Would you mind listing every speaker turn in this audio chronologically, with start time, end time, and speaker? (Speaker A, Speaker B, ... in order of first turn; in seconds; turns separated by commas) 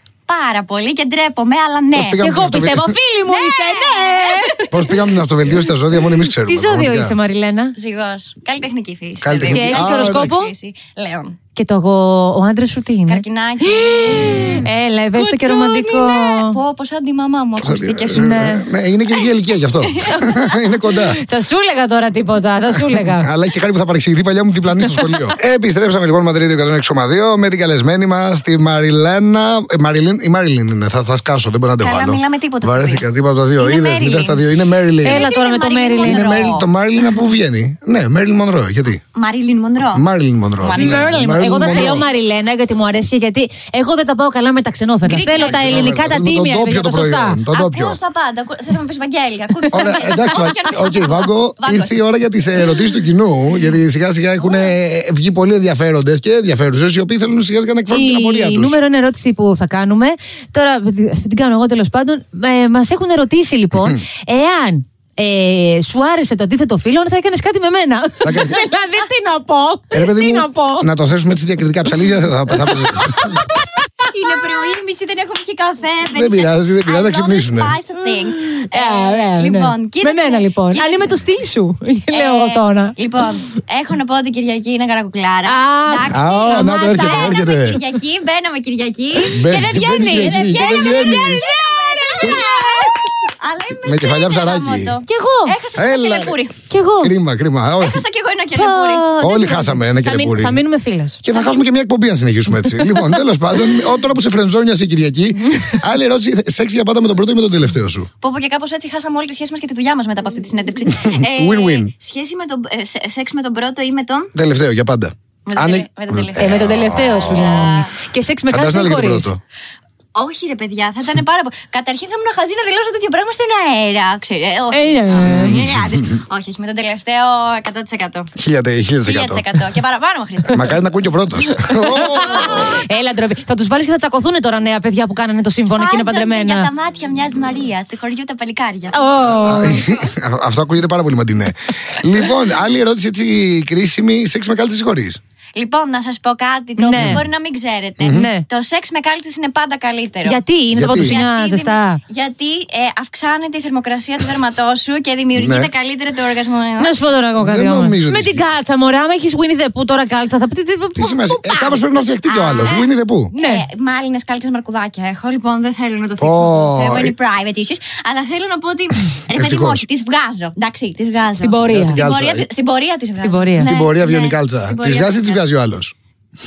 Speaker A: 0.3-2.2, Speaker B: 1.9-3.0, Speaker C: 2.2-4.6, Speaker A: 3.3-4.9, Speaker B: 4.7-7.2, Speaker C: 6.0-7.8, Speaker A: 7.8-11.4, Speaker B: 9.2-10.4, Speaker C: 9.5-10.5, Speaker C: 11.6-16.6, Speaker A: 13.1-14.6, Speaker A: 15.1-18.5, Speaker B: 17.6-21.2, Speaker C: 18.1-18.7, Speaker A: 19.8-20.8, Speaker C: 21.1-23.3, Speaker B: 23.1-35.3, Speaker A: 31.8-33.0, Speaker A: 33.6-34.4, Speaker C: 35.0-36.6, Speaker A: 35.0-36.7, Speaker B: 36.0-39.0, Speaker A: 39.1-40.0, Speaker B: 39.9-42.0, Speaker A: 40.6-42.1, Speaker C: 40.7-47.4, Speaker A: 45.0-46.0, Speaker B: 45.3-48.0, Speaker A: 47.5-52.0, Speaker C: 49.6-50.3, Speaker B: 49.7-58.8, Speaker C: 57.9-70.9, Speaker B: 68.2-68.7, Speaker B: 69.9-73.4, Speaker A: 74.1-81.2, Speaker B: 76.1-77.7, Speaker C: 78.2-83.0, Speaker A: 82.1-96.6, Speaker C: 85.5-87.4, Speaker B: 86.1-87.8, Speaker C: 89.2-92.9, Speaker B: 89.3-91.5, Speaker B: 93.9-94.9, Speaker C: 95.1-95.5, Speaker B: 95.8-96.3, Speaker C: 96.7-97.1, Speaker B: 97.0-98.0, Speaker A: 97.8-99.1, Speaker C: 98.5-101.2, Speaker B: 99.2-100.6, Speaker B: 101.2-108.1, Speaker A: 108.2-114.3, Speaker B: 111.0-111.9, Speaker B: 114.3-117.6, Speaker A: 115.5-118.0, Speaker C: 116.3-119.3, Speaker B: 118.5-119.4, Speaker A: 120.2-128.3, Speaker C: 124.7-125.7, Speaker B: 125.2-126.0, Speaker B: 128.4-129.6, Speaker A: 129.1-130.8, Speaker B: 130.5-132.8, Speaker A: 131.5-132.8, Speaker C: 131.9-136.7, Speaker A: 135.7-140.0, Speaker C: 138.9-139.8, Speaker B: 139.3-145.2, Speaker A: 145.6-157.0, Speaker C: 146.8-147.2, Speaker B: 146.9-147.2, Speaker B: 148.0-148.3, Speaker C: 148.1-148.4, Speaker C: 150.2-152.0, Speaker B: 150.8-151.2, Speaker B: 155.4-155.7, Speaker C: 156.8-162.8, Speaker B: 157.4-158.4, Speaker B: 161.0-163.3, Speaker A: 162.4-162.8, Speaker C: 163.3-163.6, Speaker A: 163.4-175.4, Speaker B: 166.2-167.1, Speaker B: 169.3-169.8, Speaker C: 171.4-172.0, Speaker B: 171.7-172.4, Speaker C: 173.2-173.7, Speaker B: 173.6-175.9